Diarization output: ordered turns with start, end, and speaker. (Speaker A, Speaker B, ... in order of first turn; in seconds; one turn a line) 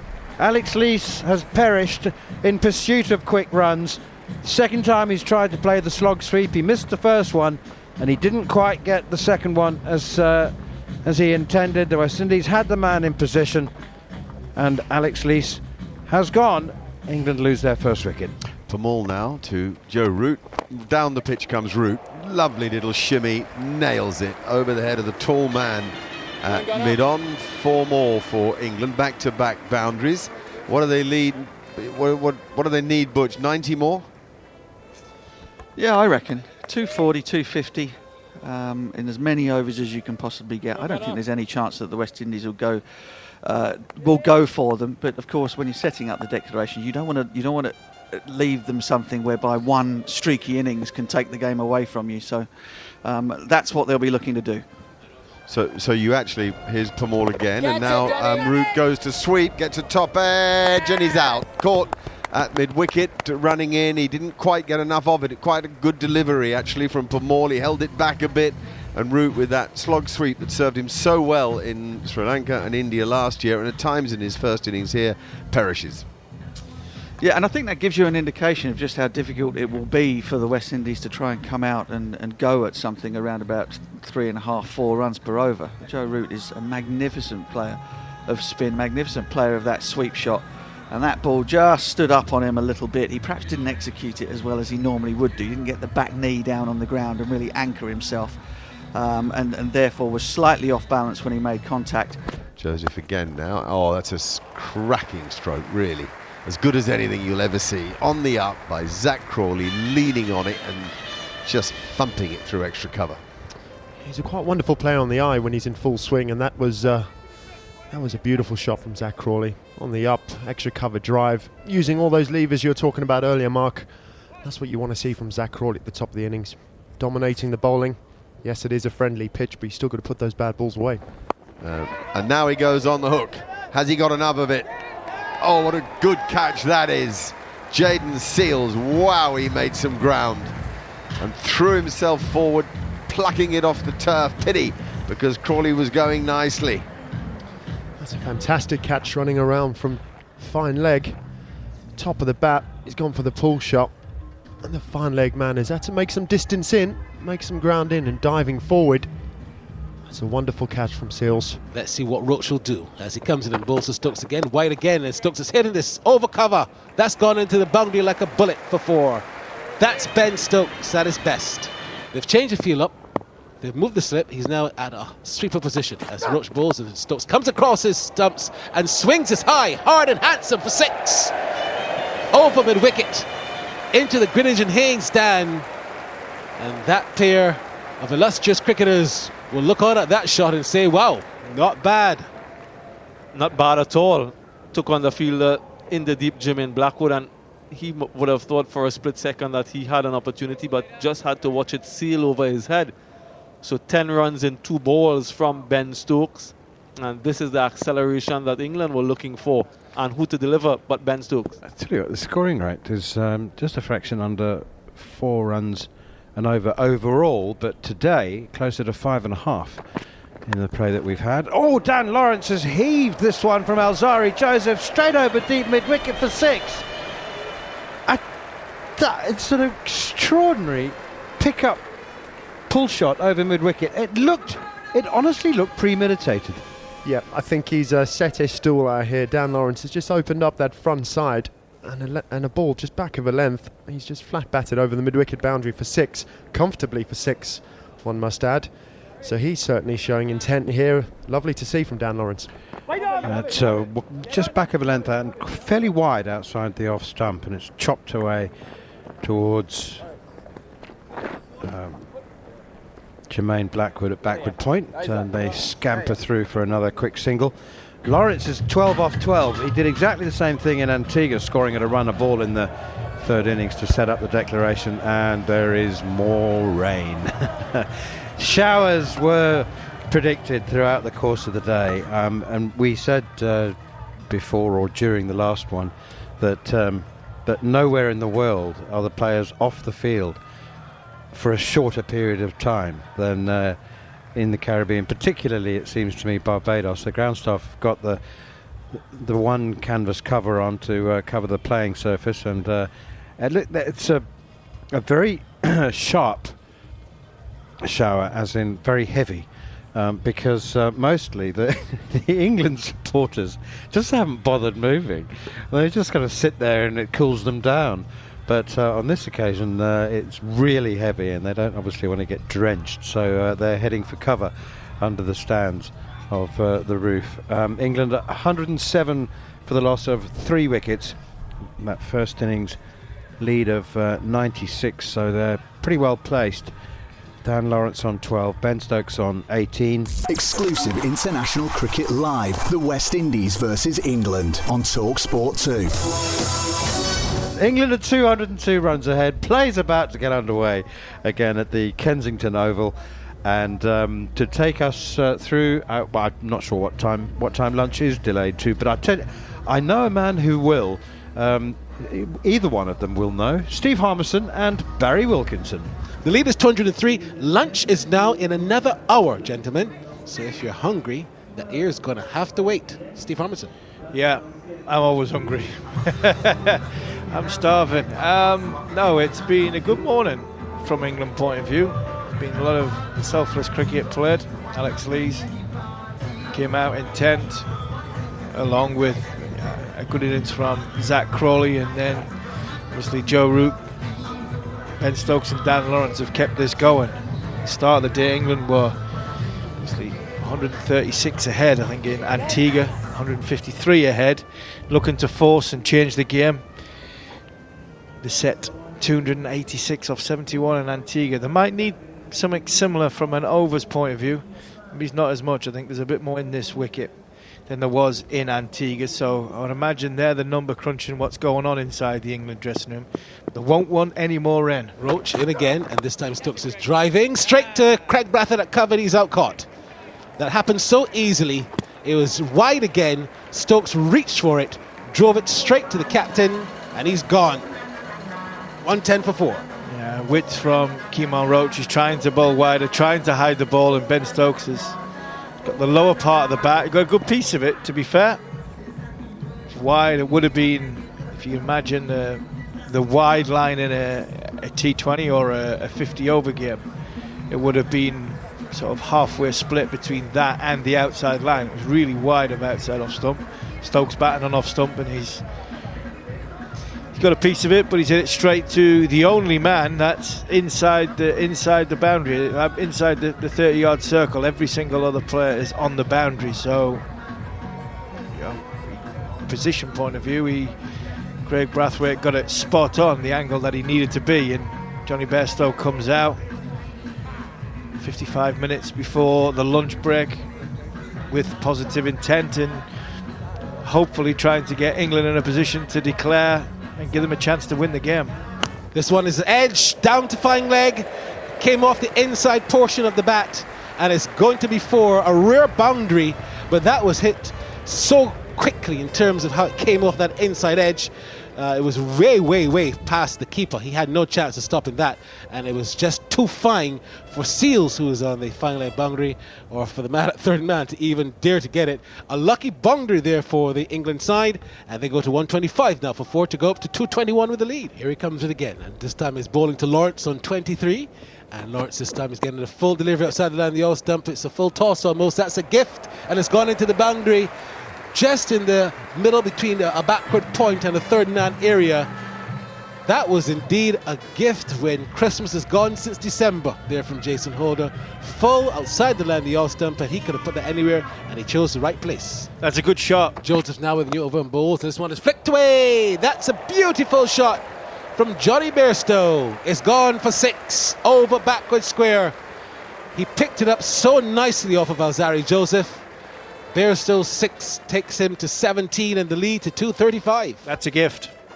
Speaker A: 0.4-13.7
Speaker A: 14.5-18.3
Speaker B: 18.7-34.1
Speaker C: 35.8-42.8
Speaker C: 43.4-52.5
Speaker C: 53.0-54.6
Speaker B: 55.5-76.0
Speaker C: 77.2-98.4
Speaker C: 98.9-102.2
Speaker B: 102.6-113.2
Speaker D: 114.0-117.3
Speaker D: 117.9-123.9
Speaker D: 124.4-131.0
Speaker B: 131.6-134.7
Speaker B: 135.4-140.6
Speaker B: 141.2-146.9
Speaker D: 148.0-151.2
Speaker D: 151.9-153.9
Speaker D: 154.6-159.1
Speaker D: 160.1-161.6
Speaker E: 161.7-169.2
Speaker E: 169.8-172.9
Speaker E: 173.6-181.3
Speaker E: 182.3-183.3
Speaker E: 183.9-185.7
Speaker E: 186.6-192.3
Speaker F: 193.3-202.9
Speaker F: 203.6-211.6
Speaker A: 211.6-219.8
Speaker A: 220.4-226.8
Speaker A: 228.9-231.8
Speaker A: 232.7-236.6
Speaker D: 237.0-252.5
Speaker A: 253.2-258.5
Speaker A: 259.2-260.0
Speaker A: 261.6-262.1
Speaker A: 263.3-283.8
Speaker A: 284.3-290.4
Speaker A: 291.3-293.8
Speaker A: 294.3-298.2
Speaker A: 298.9-304.2
Speaker A: 304.9-306.5
Speaker A: 307.8-331.2
Speaker A: 331.8-332.8
Speaker A: 333.4-336.7
Speaker A: 337.4-340.1
Speaker G: 340.3-345.9
Speaker A: 347.5-365.9
Speaker E: 366.2-373.7
Speaker H: 374.1-385.5
Speaker H: 386.5-387.7
Speaker H: 388.5-392.3
Speaker H: 392.9-393.8
Speaker H: 395.0-399.0
Speaker H: 399.7-406.7
Speaker H: 408.2-417.1
Speaker H: 417.7-424.9
Speaker E: 425.0-429.7
Speaker E: 430.4-437.6
Speaker E: 438.8-439.6
Speaker H: 439.9-445.0
Speaker H: 445.6-448.4
Speaker H: 449.7-456.8
Speaker H: 457.5-465.4
Speaker H: 467.1-477.1
Speaker H: 478.3-480.8
Speaker H: 481.4-486.4
Speaker H: 487.9-490.5
Speaker H: 491.3-492.9
Speaker H: 493.8-498.4
Speaker E: 498.9-501.1
Speaker E: 501.6-537.5
Speaker E: 538.1-542.1
Speaker E: 543.0-552.5
Speaker H: 552.6-553.4
Speaker E: 553.4-557.6
Speaker E: 558.1-562.3
Speaker E: 563.1-566.0
Speaker E: 566.7-570.6
Speaker H: 570.6-571.3